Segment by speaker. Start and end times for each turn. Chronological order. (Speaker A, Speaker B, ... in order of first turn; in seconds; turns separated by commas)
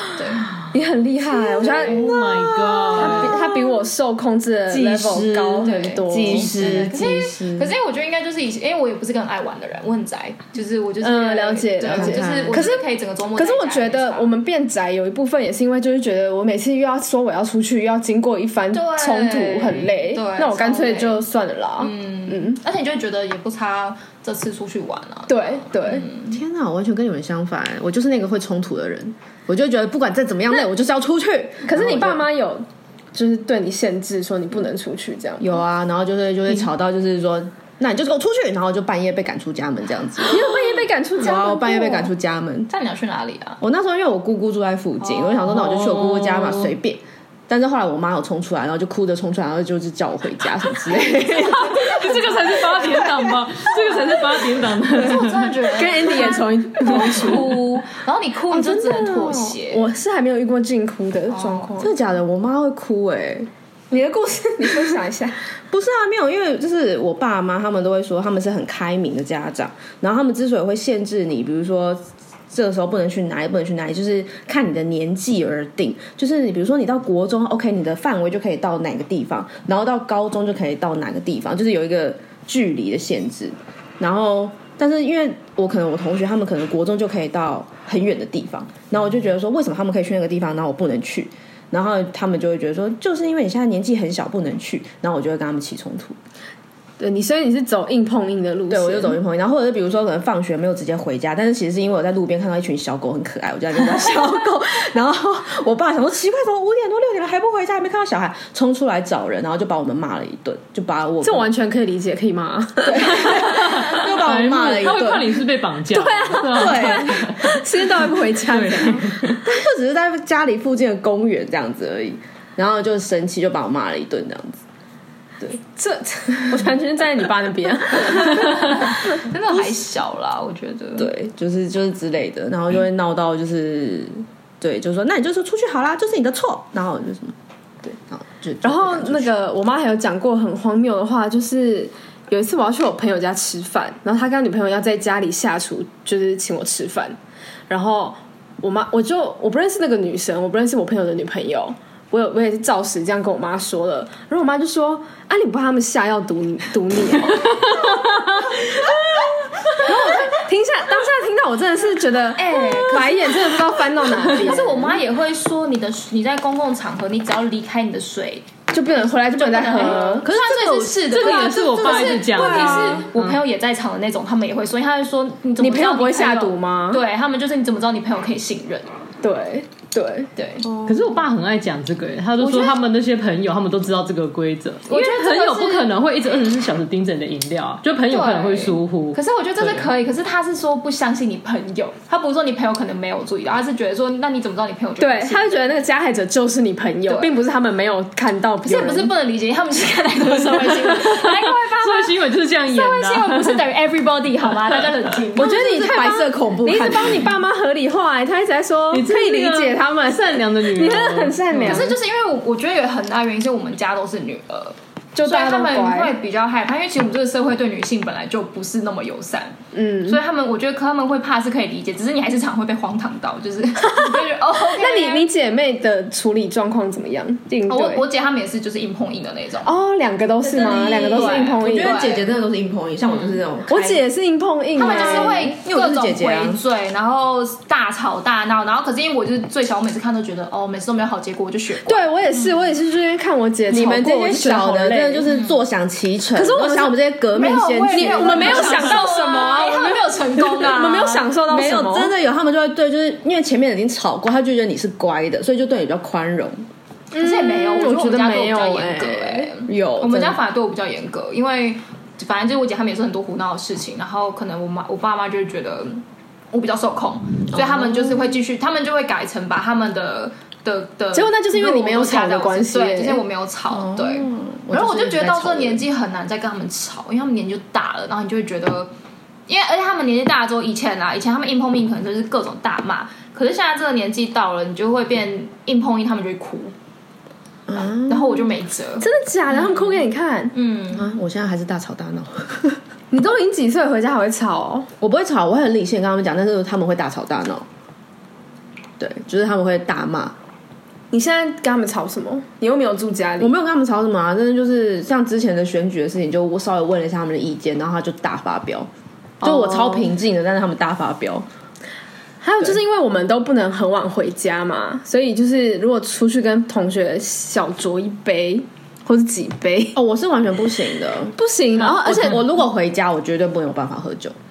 Speaker A: 0.1-0.5, Speaker B: 0.7-2.1, Speaker C: 1.3-3.8, Speaker D: 1.6-3.4, Speaker B: 2.9-6.9, Speaker C: 4.7-7.7, Speaker A: 5.6-14.3, Speaker B: 11.0-22.6, Speaker C: 11.9-12.6, Speaker A: 18.7-21.2, Speaker A: 21.8-26.4, Speaker B: 25.3-26.1, Speaker C: 26.3-32.3, Speaker B: 31.7-35.6, Speaker C: 35.4-40.6, Speaker B: 40.3-42.1, Speaker C: 41.2-42.7, Speaker A: 42.7-43.6, Speaker C: 43.6-51.7, Speaker A: 45.0-45.4, Speaker D: 45.4-46.7, Speaker B: 50.9-53.0, Speaker D: 51.1-55.7, Speaker A: 54.9-59.9, Speaker B: 55.7-57.6, Speaker B: 58.5-61.9, Speaker A: 61.3-61.7, Speaker C: 61.8-63.5, Speaker B: 63.9-65.4, Speaker C: 65.7-96.2, Speaker B: 97.0-99.2, Speaker C: 98.7-111.5, Speaker B: 111.2-114.0, Speaker C: 112.8-115.4, Speaker D: 113.3-119.4, Speaker B: 115.9-119.2, Speaker C: 116.4-117.3, Speaker C: 119.2-124.6, Speaker B: 125.5-129.2, Speaker A: 128.2-131.1, Speaker C: 131.0-137.3, Speaker C: 138.0-139.3, Speaker B: 138.6-147.2, Speaker B: 147.7-165.0, Speaker A: 162.4-168.5, Speaker B: 168.7-170.3, Speaker A: 169.3-178.9, Speaker D: 170.2-173.4, Speaker C: 171.2-173.1, Speaker B: 175.6-177.0, Speaker B: 179.2-180.3, Speaker A: 180.4-180.7, Speaker C: 180.7-181.1, Speaker D: 180.8-189.9, Speaker A: 182.4-182.8, Speaker A: 184.9-185.9, Speaker A: 188.1-195.6, Speaker B: 195.0-199.1, Speaker A: 197.1-197.3, Speaker A: 198.7-206.3, Speaker D: 200.7-203.6, Speaker D: 204.7-205.1, Speaker B: 205.4-212.0, Speaker C: 205.4-207.3, Speaker D: 208.9-211.9, Speaker A: 211.6-225.3, Speaker B: 215.2-216.2, Speaker B: 219.7-220.2, Speaker B: 223.9-224.2, Speaker B: 224.8-228.1, Speaker A: 227.7-229.7, Speaker B: 229.7-232.0, Speaker A: 230.4-232.4, Speaker C: 231.0-234.0, Speaker A: 233.0-233.4, Speaker B: 233.7-235.5, Speaker A: 234.8-242.1, Speaker C: 234.8-236.6, Speaker B: 241.9-245.3, Speaker C: 243.7-249.1, Speaker A: 245.3-245.6, Speaker B: 246.3-252.1, Speaker A: 247.3-251.3, Speaker C: 251.5-256.7, Speaker B: 257.1-259.6, Speaker A: 257.2-278.9, Speaker C: 259.7-260.4, Speaker C: 267.5-268.2, Speaker B: 271.1-273.2, Speaker C: 273.7-275.8, Speaker A: 279.5-286.7, Speaker C: 287.7-288.4, Speaker A: 287.8-291.1, Speaker B: 289.0-290.6, Speaker C: 290.9-292.8, Speaker B: 293.1-294.9, Speaker C: 295.0-297.7, Speaker C: 299.0-300.4, Speaker B: 301.1-303.5, Speaker C: 303.4-308.9, Speaker C: 309.4-311.5, Speaker B: 309.4-310.1, Speaker B: 312.4-320.0, Speaker C: 319.9-324.4, Speaker B: 321.4-322.4